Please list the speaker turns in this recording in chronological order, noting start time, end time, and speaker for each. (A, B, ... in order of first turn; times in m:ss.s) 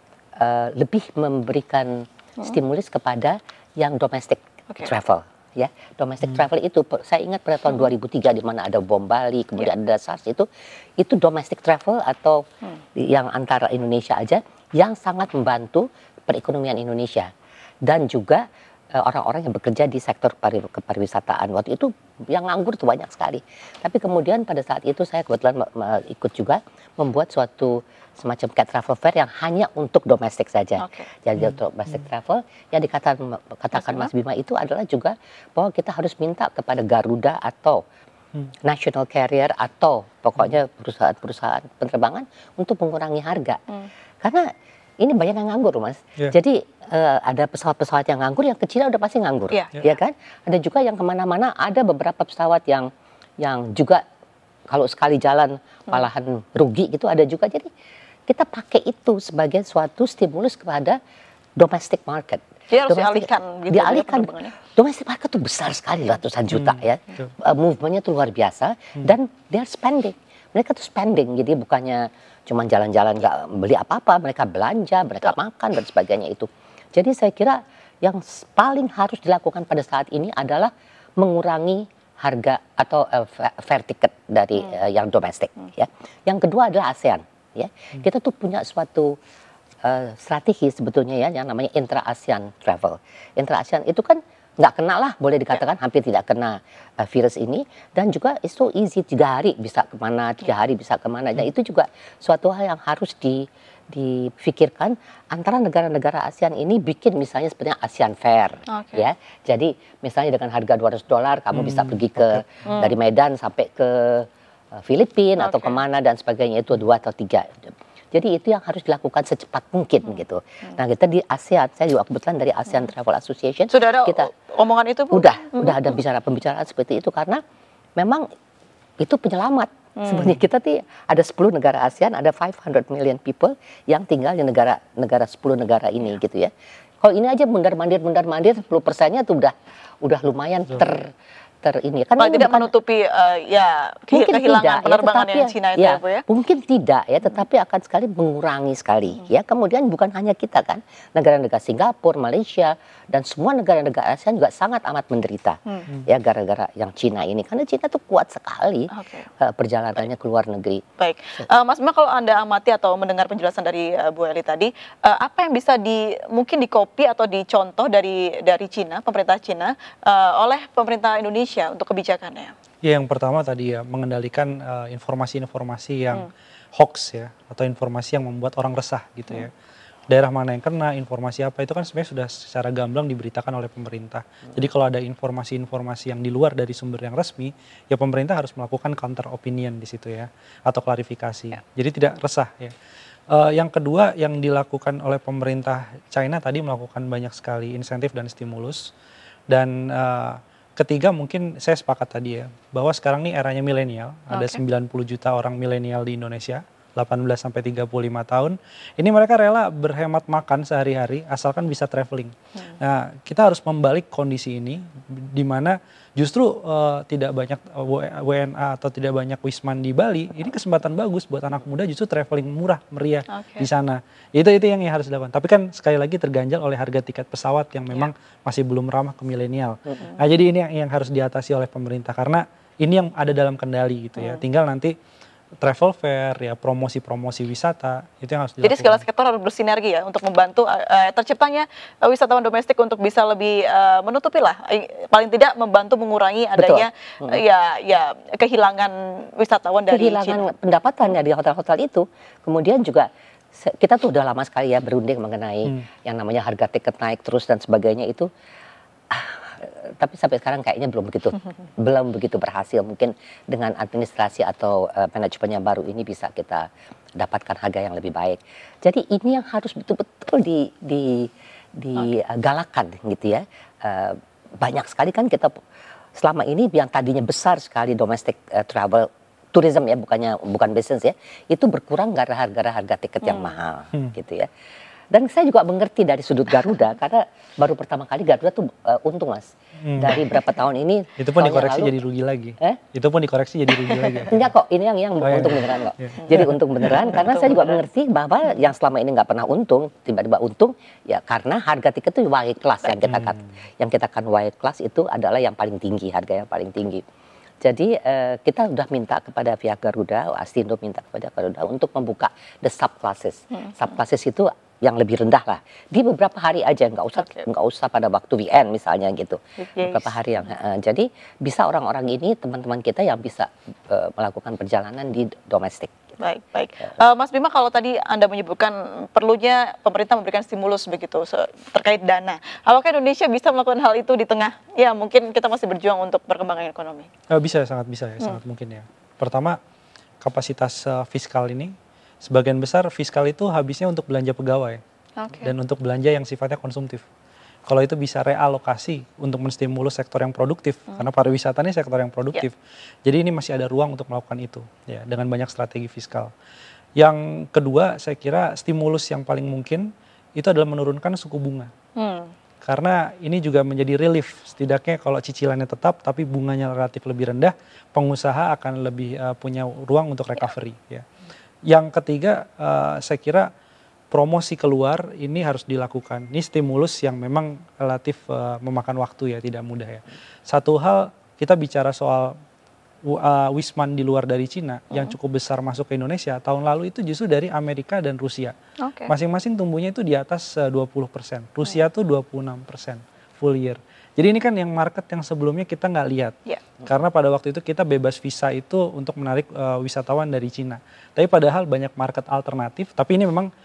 0:00.4-0:10.5 A
0:11.0-0:12.4 A
0:13.0-0:17.3 A
0:17.8-0:18.4 A
0:19.0-0:37.8 A
0:30.8-0:31.1 B
0:33.8-0:34.1 B
0:38.6-0:43.6 A
0:45.0-0:52.9 A
0:53.4-0:54.0 A
0:54.7-0:57.7 A
0:58.3-1:01.0 A
1:01.6-1:29.2 A
1:02.7-1:04.6 B
1:06.5-1:07.3 C
1:29.8-1:57.6 A
1:48.7-1:49.0 B
1:51.5-1:52.0 C
1:52.7-1:52.9 B
1:55.4-1:55.8 B
1:58.1-2:04.3 A
2:03.7-2:06.0 B
2:05.1-2:07.4 A
2:08.0-2:08.2 A
2:09.0-2:16.5 A
2:10.0-2:10.3 B
2:17.0-2:22.7 A
2:22.2-2:26.2 B
2:24.1-2:40.8 A
2:38.9-2:39.3 B
2:41.0-2:52.5 B
2:52.8-2:59.5 C
3:00.1-3:12.7 C
3:13.3-3:18.8 C
3:19.5-3:54.9 C
3:24.3-3:24.6 B
3:43.3-3:43.7 B
3:54.2-3:54.4 B
3:55.6-3:59.0 C
3:58.6-4:10.5 B
4:06.6-4:07.4 A
4:09.9-4:18.3 A
4:19.1-4:26.7 A
4:27.2-4:35.5 A
4:36.2-4:44.5 A
4:43.2-4:43.5 B
4:45.1-4:51.9 A
4:49.8-4:50.2 C
4:51.2-4:54.5 C
4:54.0-5:07.0 A
4:55.2-4:57.3 C
4:57.0-4:57.8 B
5:03.0-5:03.5 C
5:07.6-5:26.0 A
5:13.5-5:13.9 B
5:17.2-5:17.4 B
5:19.6-5:20.2 B
5:26.2-5:37.1 B
5:37.3-5:39.6 C
5:40.2-5:41.7 C
5:42.2-5:44.8 C
5:45.2-5:45.5 B
5:45.4-5:47.1 C
5:47.7-5:56.3 C
5:57.0-5:59.9 C
6:00.4-6:01.7 C
6:02.0-6:02.3 B
6:02.6-6:11.0 C
6:11.7-6:13.5 C
6:14.1-6:22.3 C
6:23.1-6:28.5 C
6:28.8-6:29.1 B
6:29.1-6:43.5 C